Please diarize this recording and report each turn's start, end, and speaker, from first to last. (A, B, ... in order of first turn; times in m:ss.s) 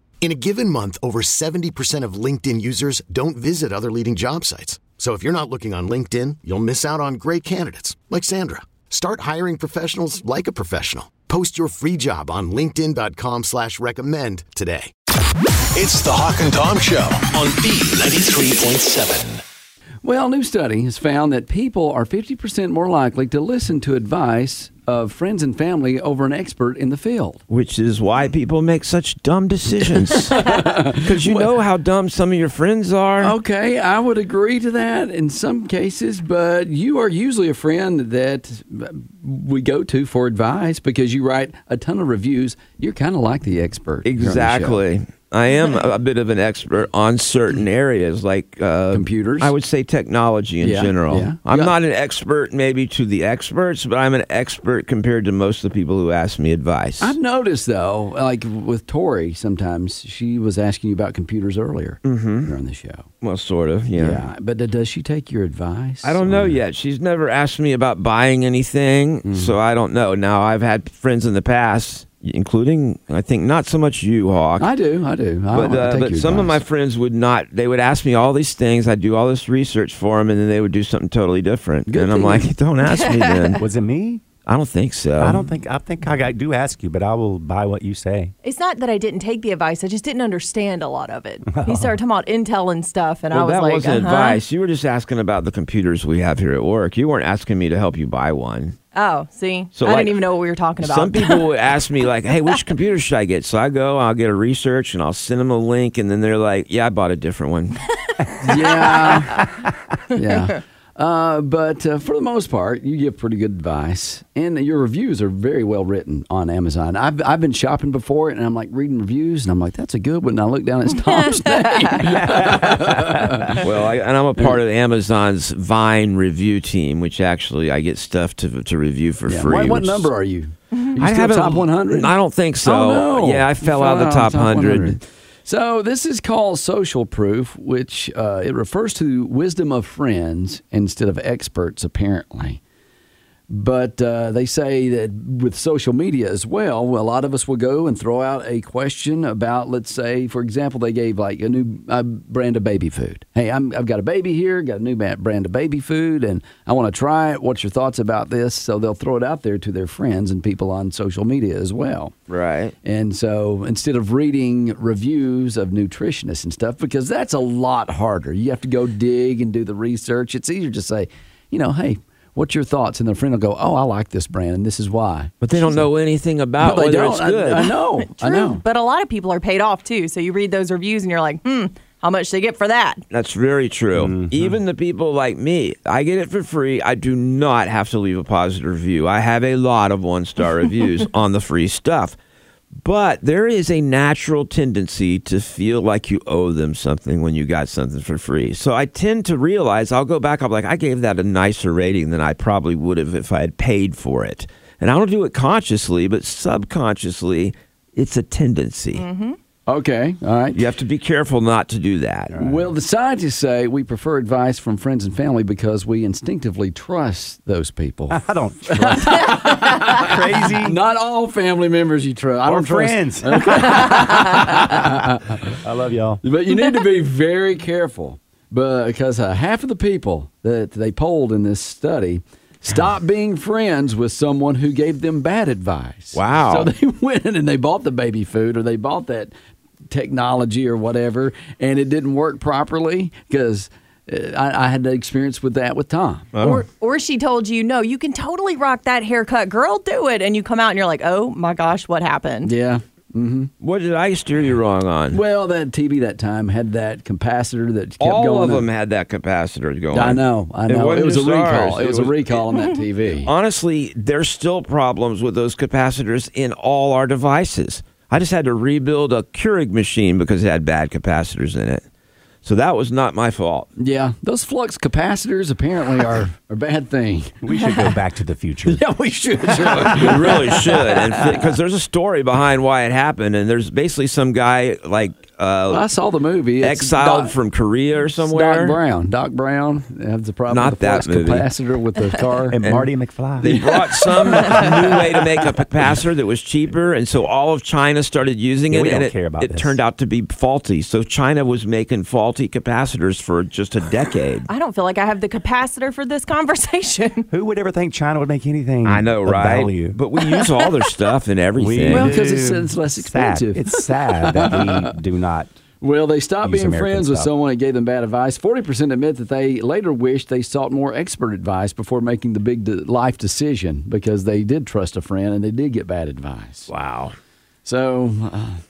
0:00.2-0:14.9 A
0:15.7-0:19.4 B
0:20.0-0:27.4 C
0:27.5-0:33.4 D
0:29.8-0:31.5 C
0:33.2-0:44.8 C
0:44.0-0:57.2 D
0:48.9-0:49.5 C
0:50.6-0:51.7 C
0:57.0-1:03.1 C
1:02.0-1:02.6 D
1:03.2-1:04.3 D
1:04.0-1:06.6 C
1:06.0-1:14.7 D
1:09.2-1:09.5 C
1:14.6-1:16.6 C
1:15.5-1:23.6 D
1:21.9-1:22.5 C
1:23.6-1:24.2 E
1:24.5-1:25.4 D
1:25.2-1:28.3 E
1:28.4-1:34.4 F
1:31.5-1:32.0 E
1:33.3-1:38.8 D
1:38.9-1:41.4 F
1:39.8-1:40.2 D
1:40.8-1:47.8 D
1:48.4-1:49.5 C
1:50.1-2:03.7 C
2:01.1-2:02.0 F
2:02.1-2:03.6 E
2:03.6-2:10.1 D
2:09.3-2:12.1 C
2:11.0-2:15.0 D
2:12.6-2:22.6 C
2:23.5-2:42.1 C
2:42.3-2:42.7 D
2:42.8-2:55.8 C
2:55.4-2:57.7 D
2:56.6-2:58.6 C
2:58.0-3:03.0 F
3:03.1-3:12.2 D
3:04.0-3:04.6 E
3:12.8-3:29.0 D
3:29.0-3:29.4 F
3:29.7-3:30.6 C
3:30.5-3:32.3 D
3:32.3-3:32.7 E
3:32.4-3:38.2 C
3:38.1-3:40.8 E
3:38.8-3:45.4 C
3:42.4-3:44.8 E
3:45.5-3:46.2 E
3:46.2-3:59.3 C
3:56.1-3:56.7 D
3:59.9-4:06.4 C
4:06.3-4:06.6 D
4:06.4-4:12.5 F
4:12.4-4:13.5 C
4:13.6-4:15.2 D
4:15.1-4:18.7 C
4:18.0-4:22.5 D
4:19.9-4:23.3 C
4:23.2-4:31.8 D
4:32.4-4:33.7 D
4:33.8-4:37.3 C
4:37.4-4:38.9 E
4:38.7-4:41.5 C
4:39.4-4:40.3 E
4:39.6-4:45.9 D
4:45.7-4:47.3 C
4:46.6-4:48.8 D
4:48.3-4:52.8 C
4:50.5-4:51.5 D
4:52.5-4:54.9 E
4:53.4-5:04.5 D
4:58.7-4:59.8 E
5:04.5-5:07.3 F
5:07.3-5:10.0 E
5:08.8-5:12.2 D
5:11.6-5:15.5 E
5:11.9-5:14.9 C
5:15.8-5:26.7 C
5:16.4-5:17.3 E
5:26.7-5:27.2 D
5:27.6-5:28.6 C